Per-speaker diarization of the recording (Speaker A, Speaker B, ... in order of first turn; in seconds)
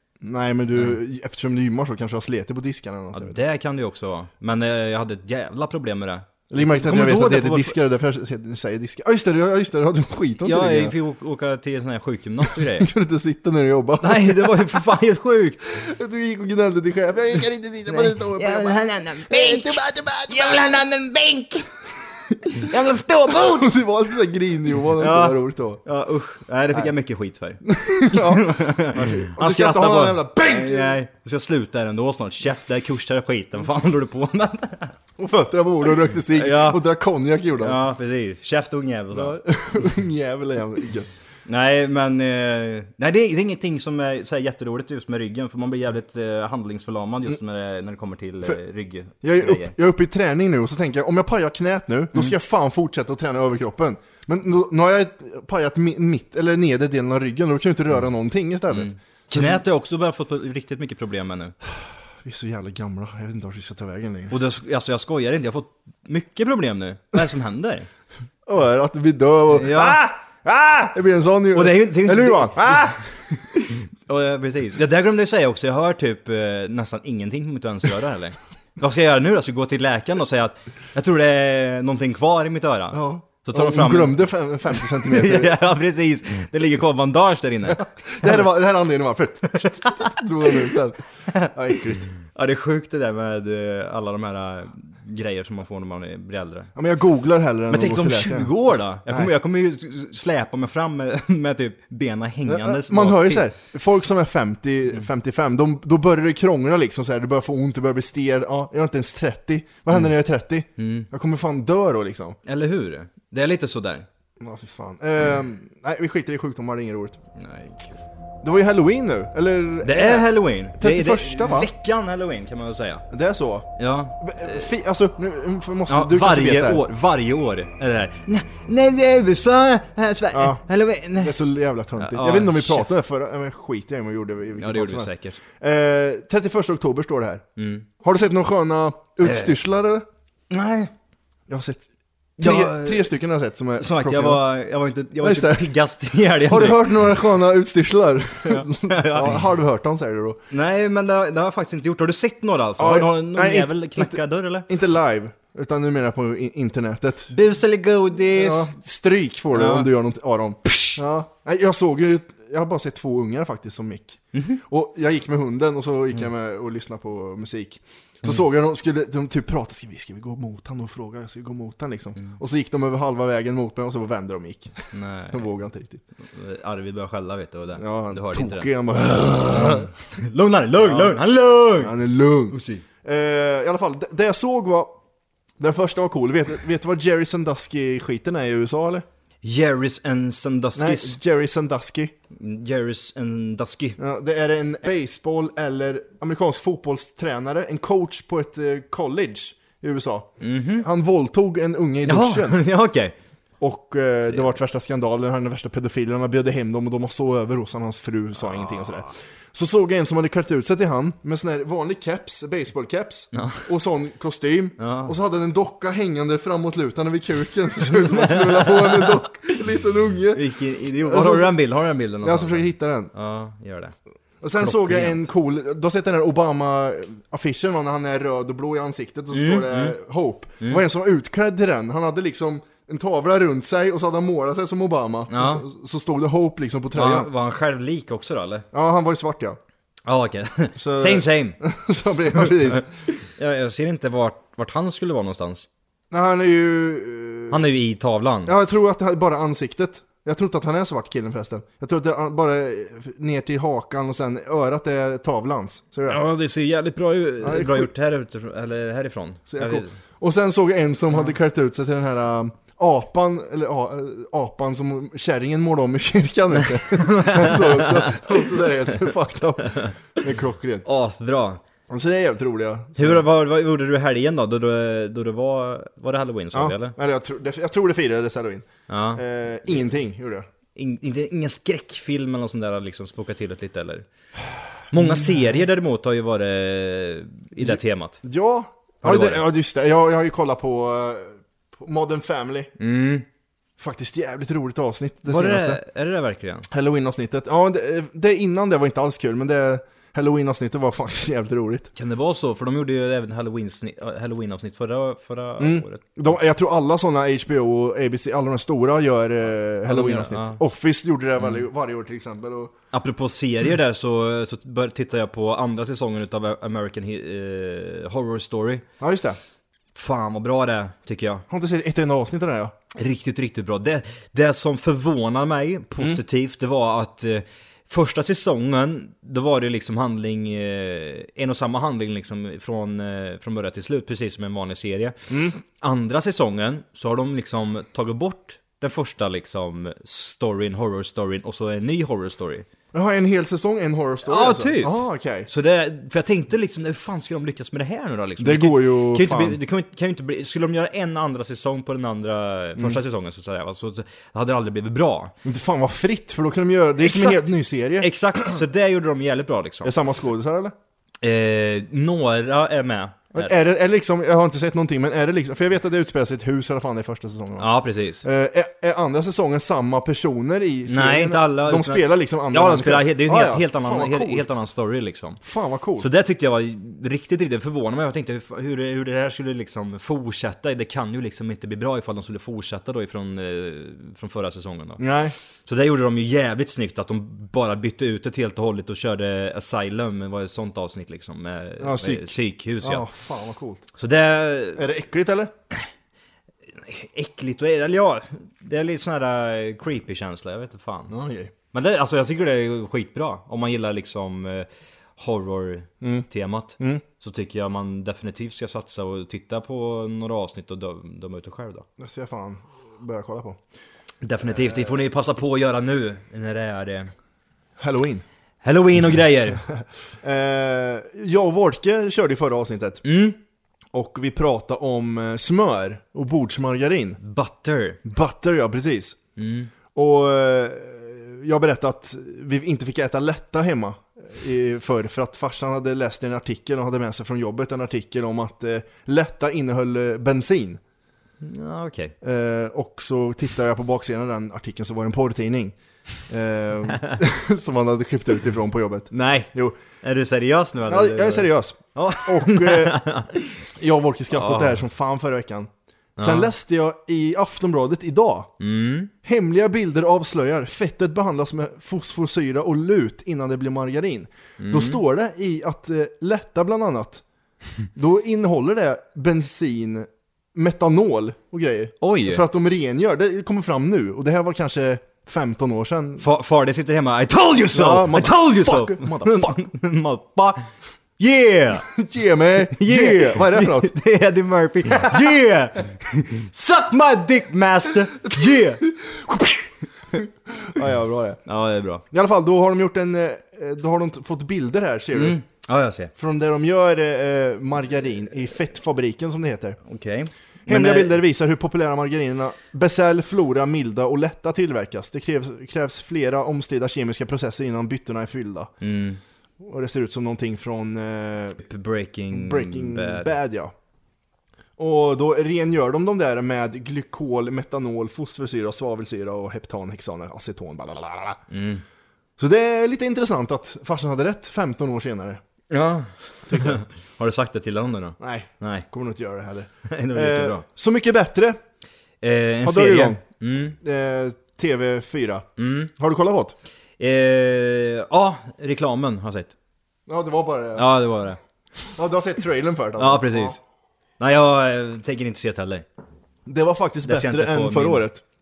Speaker A: 0.2-3.4, 6.5-10.9, 12.7-14.8, 15.7-20.7, 23.4-25.8, 27.6-31.0, 35.2-37.8, 39.1-41.1, 49.2-59.6, 62.2-64.4, 68.5-73.0, 82.9-85.6, 87.8-92.1, 96.8-98.5, 102.5-112.4, 114.4-117.2, 118.4-121.7, 123.1-126.8, 130.3-130.6, 131.2-137.4, 138.0-140.1, 141.5-144.4, 145.2-145.7, 146.4-150.4, 152.8-157.3, 158.3-176.0, 177.8-179.9, 180.8-181.1, 181.8-184.9, 185.6-189.1, 190.8-192.1, 194.0-202.6, 203.6-220.4, 221.0-221.5, 222.2-223.1, 224.4-237.3, 238.7-239.6, 240.8-242.9, 246.1-247.6, 248.5-256.2, 257.4-257.9, 259.5-270.9, 271.9-273.2, 276.5-280.5, 287.6-292.7, 293.8-295.8, 296.7-301.9, 305.6-312.7, 319.0-319.4, 321.5-322.7, 335.3-335.6, 342.9-345.5, 348.4-349.6, 355.4-358.1, 359.8-360.7, 363.3-367.7, 368.2-374.5, 375.4-376.1, 385.0-385.4, 391.8-393.9, 394.8-395.5, 401.1-401.5, 412.0-413.6, 417.8-418.2, 420.2-423.0, 423.9-427.2, 428.0-429.2, 429.9-440.8, 442.2-445.8, 446.3-449.8, 450.9-453.0, 453.8-458.5, 459.2-467.2, 467.9-476.2, 477.7-479.5, 481.9-483.9, 488.2-489.6, 490.1-491.4, 492.1-495.4, 496.1-499.8, 500.7-508.7, 509.6-511.6, 512.3-513.7, 514.8-521.4, 522.4-525.4, 526.5-526.8, 528.2-531.6, 532.6-533.2, 533.8-536.5, 540.1-540.9, 541.9-543.6, 546.5-548.2
Speaker B: 3.1-7.8, 10.4-12.9, 14.0-15.8, 17.9-21.7, 22.4-23.7, 25.0-35.0, 36.2-36.8, 37.6-39.4, 41.5-49.8, 58.7-61.5, 64.3-67.9, 69.5-70.0, 71.5-73.0, 73.7-88.5, 89.5-90.7, 92.2-96.7, 97.7-103.5, 110.8-111.1, 112.5-114.1, 117.4-118.0, 119.8-123.0, 123.8-124.7, 125.9-131.4, 132.0-132.9, 134.6-135.4, 137.6-137.9, 139.2-139.6, 140.5-140.9, 142.4-143.1, 143.8-147.0, 148.4-149.4, 150.5-154.7, 157.3-158.7, 159.5-159.9, 160.7-161.0, 164.3-164.6, 174.9-175.5, 176.2-178.7, 179.5-182.0, 182.5-182.8, 189.4-191.2, 192.3-194.0, 200.4-200.9, 202.1-203.1, 213.3-213.6, 214.8-215.1, 217.9-219.2, 220.3-224.0, 224.6-225.3, 229.3-230.0, 235.3-235.6, 236.9-238.7, 240.1-241.6, 243.3-245.7, 247.5-248.5, 256.1-259.9, 266.6-268.6, 270.9-271.6, 273.0-277.0, 278.9-279.2, 280.8-284.1, 284.9-288.2, 289.0-289.4, 292.8-293.2, 295.2-296.7, 301.9-306.0, 309.9-310.6, 312.9-318.9, 319.9-321.4, 322.9-342.6, 344.2-355.3, 357.0-359.9, 361.2-363.5, 367.6-368.2, 370.9-375.4, 376.0-385.0, 385.6-393.1, 393.9-394.8, 396.7-401.1, 401.7-411.9, 414.2-417.1, 418.6-419.6, 423.0-423.4, 427.2-428.0, 429.4-429.7, 441.4-442.1, 449.1-453.6, 454.3-454.8, 456.2-456.5, 458.6-459.1, 464.6-465.0, 472.0-472.4, 476.2-480.6, 481.2-481.9, 482.7-488.8, 491.4-492.0, 495.1-496.1, 499.9-501.2, 508.8-509.2, 511.6-513.3, 521.5-521.8, 525.7-528.9, 529.9-530.6, 532.2-533.8, 535.6-535.9, 537.0-539.5, 540.8-541.4, 543.0-543.6, 544.2-545.9, 547.0-548.1